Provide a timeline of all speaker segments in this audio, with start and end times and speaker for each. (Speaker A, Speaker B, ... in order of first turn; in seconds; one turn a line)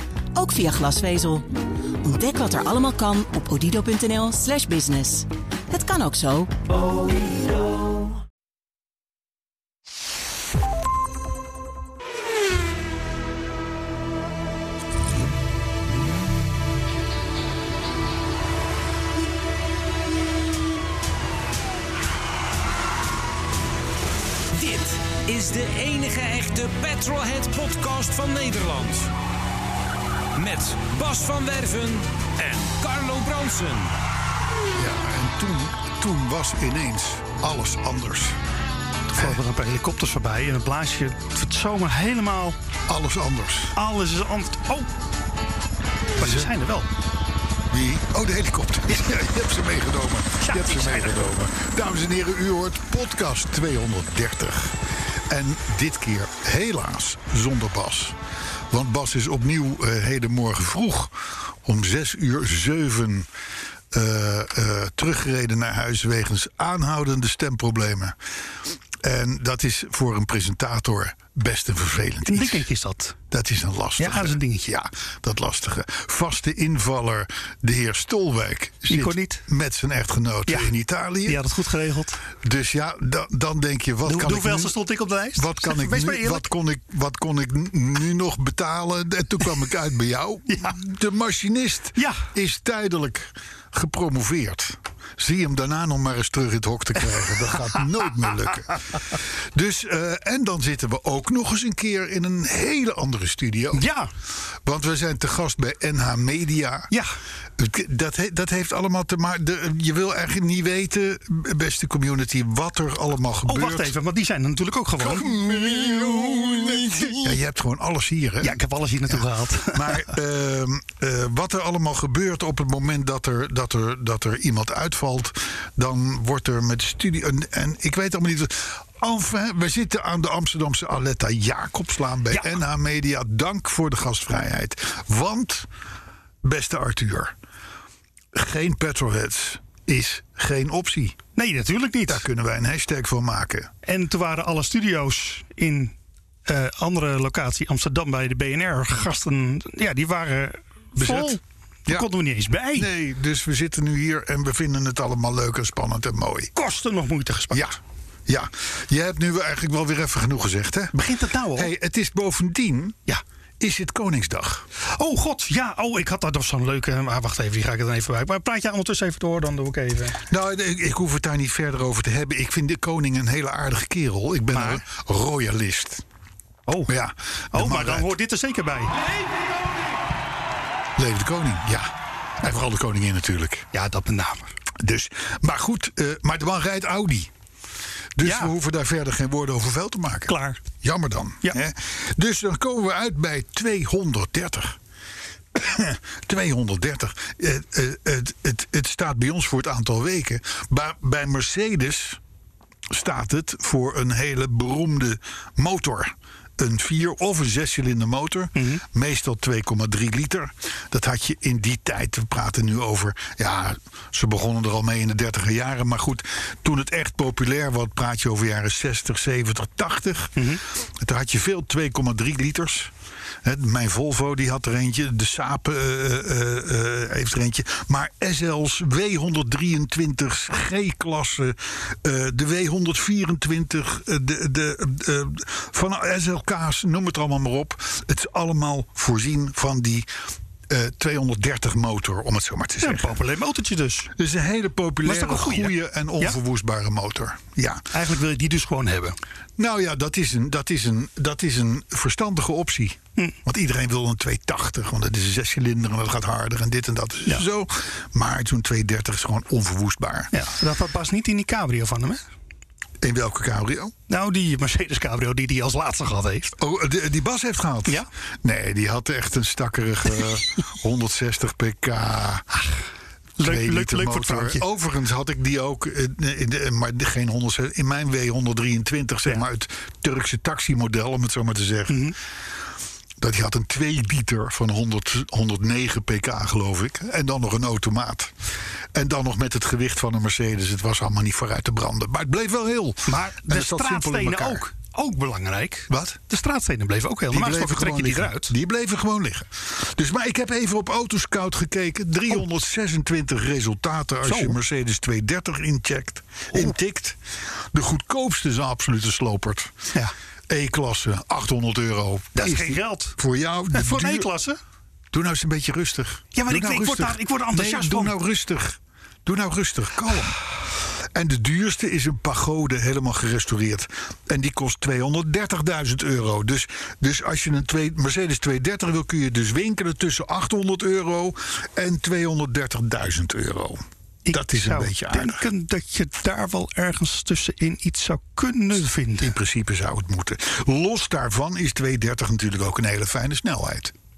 Speaker A: 0.3-1.5
Speaker A: 2.0-6.5
Speaker B: 24.5-29.1
Speaker B: 30.3-33.9
Speaker C: 34.7-38.4
Speaker D: 39.1-42.6
Speaker C: 42.9-43.8
Speaker D: 43.7-44.9
Speaker C: 46.2-46.5
Speaker D: 46.2-46.9
Speaker C: 47.7-54.8
Speaker D: 50.4-51.2
Speaker C: 55.3-58.1
Speaker C: 58.7-63.3
Speaker C: 63.9-68.2
Speaker C: 69.0-72.7
Speaker D: 72.3-73.2
Speaker C: 73.3-81.4
Speaker D: 74.0-74.7
Speaker D: 78.9-79.4
Speaker D: 81.2-82.2
Speaker C: 82.3-84.7
Speaker D: 84.0-86.5
Speaker C: 85.3-103.8
Speaker D: 90.5-90.8
Speaker D: 92.0-92.2
Speaker D: 103.7-104.1
Speaker C: 104.6-106.9
Speaker C: 107.6-113.9
Speaker D: 113.5-115.4
Speaker C: 115.0-135.7
Speaker D: 116.0-117.1
Speaker D: 118.4-120.1
Speaker C: 136.4-137.3
Speaker C: 138.3-141.2
Speaker D: 141.3-142.2
Speaker C: 142.1-143.7
Speaker D: 143.8-145.9
Speaker D: 146.5-152.9
Speaker C: 151.0-152.1
Speaker C: 152.7-156.5
Speaker D: 156.5-157.7
Speaker C: 157.5-160.9
Speaker D: 160.9-161.7
Speaker C: 161.5-163.0
Speaker C: 163.6-164.7
Speaker D: 164.8-170.2
Speaker C: 170.2-176.0
Speaker D: 174.5-174.8
Speaker D: 176.7-176.9
Speaker C: 176.9-178.1
Speaker D: 177.5-178.9
Speaker C: 180.9-183.7
Speaker D: 183.7-184.5
Speaker C: 184.8-187.3
Speaker C: 188.2-194.8
Speaker D: 188.2-188.5
Speaker D: 190.3-190.6
Speaker C: 195.5-202.2
Speaker C: 202.9-220.4
Speaker D: 208.6-208.8
Speaker D: 220.3-220.6
Speaker C: 221.0-222.9
Speaker C: 223.4-240.1
Speaker C: 240.7-243.2
Speaker D: 242.8-244.1
Speaker C: 244.2-247.8
Speaker D: 245.0-246.4
Speaker D: 247.9-249.2
Speaker C: 249.6-260.3
Speaker D: 260.3-262.2
Speaker C: 263.0-263.9
Speaker D: 264.1-266.6
Speaker C: 266.6-272.5
Speaker D: 273.4-274.6
Speaker C: 273.4-282.1
Speaker D: 281.9-282.1
Speaker C: 283.2-288.3
Speaker C: 288.9-294.6
Speaker D: 293.1-298.5
Speaker C: 295.9-296.2
Speaker C: 297.3-309.7
Speaker D: 304.2-304.6
Speaker C: 310.5-314.3
Speaker D: 312.3-313.2
Speaker D: 313.7-314.6
Speaker C: 315.1-320.4
Speaker D: 316.3-318.2
Speaker C: 321.1-335.4
Speaker D: 334.2-339.3
Speaker C: 339.2-343.9